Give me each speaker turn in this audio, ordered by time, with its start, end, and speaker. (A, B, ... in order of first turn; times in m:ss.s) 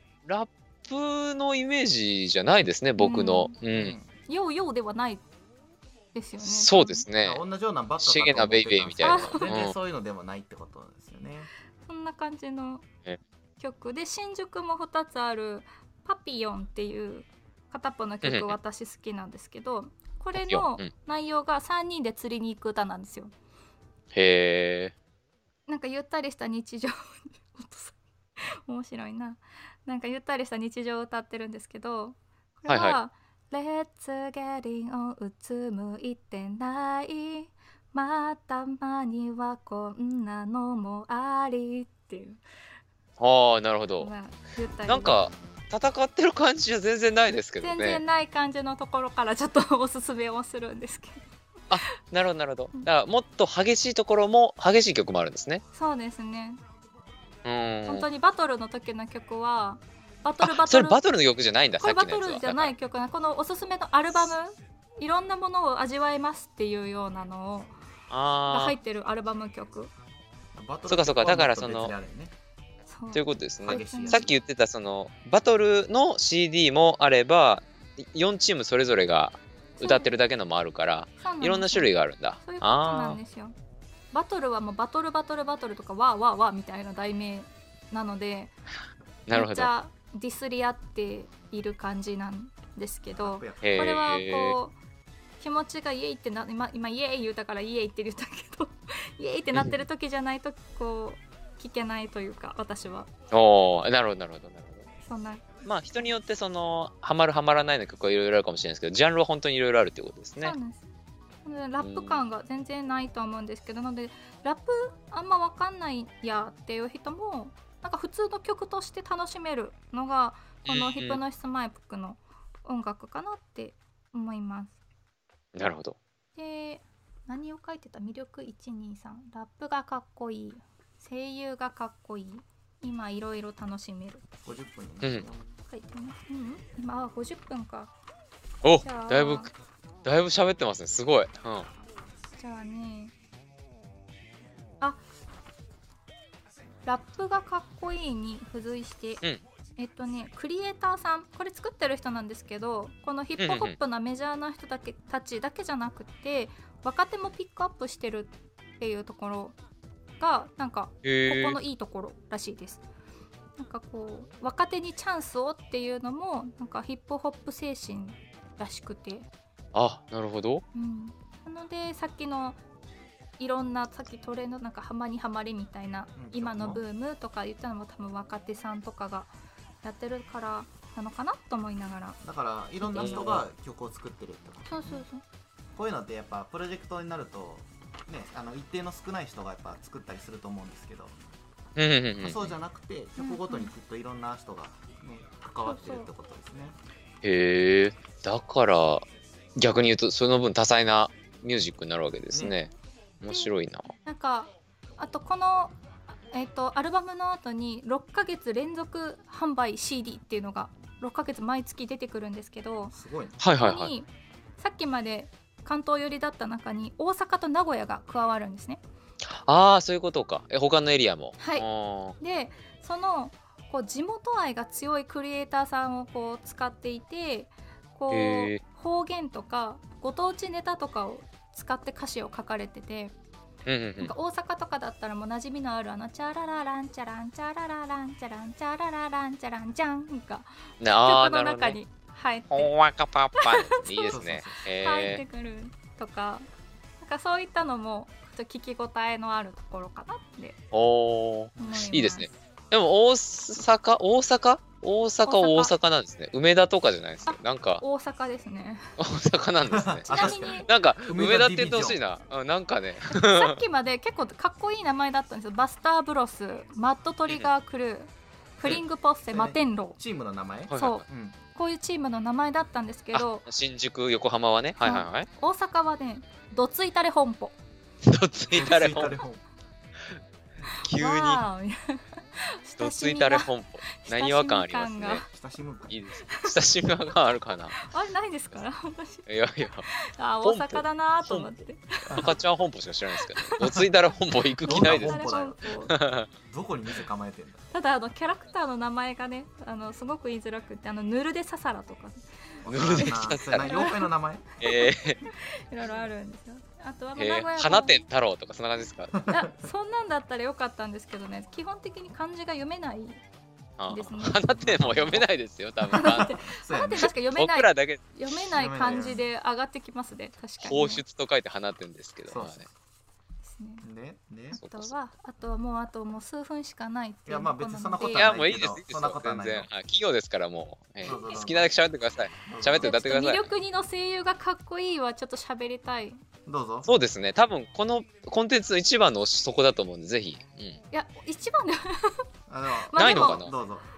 0:00.2-0:03.9 A
0:03.0-0:03.5 B
0:03.7-0:04.1 C
0:04.3-0:05.2 B
0:06.1-0:07.0 B
0:06.4-0:07.4 A
0:07.2-0:11.5 C
0:08.0-0:09.7 A
0:09.0-0:09.5 B
0:11.8-0:12.8 B
0:13.6-0:23.3 B
0:18.2-0:18.6 A
0:20.3-0:20.9 A
0:24.1-0:24.9 A
0:25.7-0:42.4 B
0:32.7-0:33.0 A
0:43.2-0:44.1 A
0:44.0-0:45.2 B
0:44.8-0:48.0 A
0:47.6-0:51.2 B
0:51.7-0:55.6 A
0:55.7-0:56.6 B
0:57.4-0:58.0 A
0:57.9-1:01.0 B
1:00.4-1:02.7 A
1:01.8-1:07.7 B
1:08.1-1:08.8 A
1:08.5-1:09.9 B
1:10.5-1:12.3 C
1:10.9-1:11.9 A
1:12.9-1:14.3 B
1:13.1-1:23.2 A
1:13.6-1:14.3 C
1:19.8-1:20.1 B
1:21.2-1:23.5 B
1:24.1-1:28.5 B
1:29.3-1:29.7 A
1:29.3-1:34.8 B
1:33.1-1:34.0 C
1:33.6-1:34.6 A
1:35.4-1:43.1 B
1:39.5-1:39.8 A
1:43.3-1:44.9 A
1:45.0-1:45.5 B
1:45.6-1:50.6 A
1:50.4-1:50.8 B
1:51.4-2:04.7 B
1:51.8-1:52.2 A
2:00.6-2:01.2 A
2:05.5-2:06.0 A
2:06.4-2:14.2 B
2:14.4-2:15.4 C
2:15.0-2:15.3 A
2:15.7-2:17.9 B
2:18.6-2:19.5 A
2:18.8-2:19.5 B
2:20.0-2:21.7 A
2:22.4-2:23.1 B
2:26.8-2:29.2 B
2:29.8-2:39.6 B
2:33.4-2:33.7 A
2:40.2-2:42.8 B
2:41.0-2:41.6 A
2:43.6-2:49.3 B
2:49.7-2:50.6 A
2:50.7-2:52.6 B
2:53.4-2:59.3 B
2:56.2-2:56.8 C
2:59.8-3:02.2 B
3:02.2-3:05.0 C
3:02.8-3:03.3 B
3:03.0-3:03.4 A
3:04.7-3:05.2 B
3:05.7-3:11.1 C
3:11.8-3:12.5 A
3:12.2-3:16.8 C
3:13.2-3:13.7 B
3:15.6-3:16.1 B
3:17.2-3:19.0 A
3:19.6-3:22.7 A
3:23.2-3:23.9 A
3:24.0-3:25.8 B
3:26.3-3:32.9 B
3:32.9-3:33.4 C
3:33.4-3:33.9 A
3:33.6-3:34.1 B
3:34.6-3:38.8 B
3:39.3-3:42.2 A
3:41.4-3:41.6 B
3:42.2-3:53.1 B
3:48.1-3:48.6 A
3:53.6-3:54.1 A
3:54.0-4:00.5 B
4:00.8-4:01.8 A
4:01.0-4:02.7 B
4:02.5-4:05.2 A
4:03.4-4:06.5 B
4:04.1-4:04.7 C
4:07.0-4:10.6 B
4:10.7-4:17.8 A
4:11.6-4:12.4 B
4:15.2-4:15.7 B
4:17.3-4:18.9 B
4:19.0-4:23.6 A
4:19.7-4:22.0 C
4:20.1-4:20.7 B
4:23.1-4:30.0 B
4:28.6-4:31.4 C
4:30.7-4:31.0 A
4:30.7-4:31.0 B
4:31.5-4:33.5 B
4:33.1-4:35.3 A
4:34.8-4:37.6 B
4:38.0-4:39.2 A
4:38.5-4:39.4 C
4:40.7-4:41.4 A
4:40.8-4:45.2 B
4:42.8-4:45.2 A
4:45.2-4:45.9 C
4:45.9-4:47.8 A
4:46.3-4:46.6 B
4:47.8-4:49.2 B
4:49.2-4:49.9 A
4:49.9-4:52.3 B
4:50.4-4:51.5 A
4:52.1-4:52.4 C
4:52.1-4:55.3 A
4:53.2-4:53.8 B
4:54.6-4:55.6 C
4:54.6-4:55.9 B
4:55.9-4:56.3 A
4:56.5-4:57.7 C
4:57.7-5:02.2 B
5:02.6-5:04.4 C
5:02.6-5:04.0 A
5:02.8-5:04.1 B
5:04.6-5:05.2 A
5:04.6-5:08.0 B
5:07.2-5:09.2 A
5:09.3-5:13.2 B
5:13.8-5:16.4 A
5:13.9-5:14.4 B
5:14.5-5:15.2 C
5:15.9-5:21.0 B
5:16.0-5:17.1 C
5:17.4-5:18.0 A
5:18.5-5:19.3 C
5:20.6-5:22.6 A
5:22.3-5:22.7 C
5:23.4-5:23.8 B
5:23.8-5:24.6 C
5:24.5-5:28.3 B
5:24.6-5:24.9 A
5:27.3-5:29.7 C
5:28.1-5:33.5 A
5:31.0-5:31.8 C
5:31.0-5:31.4 B
5:32.4-5:33.0 C
5:32.7-5:36.2 B
5:36.4-5:36.9 C
5:36.8-5:40.8 A
5:40.9-5:42.2 B
5:42.5-5:43.9 C
5:42.8-5:43.4 B
5:43.0-5:43.5 A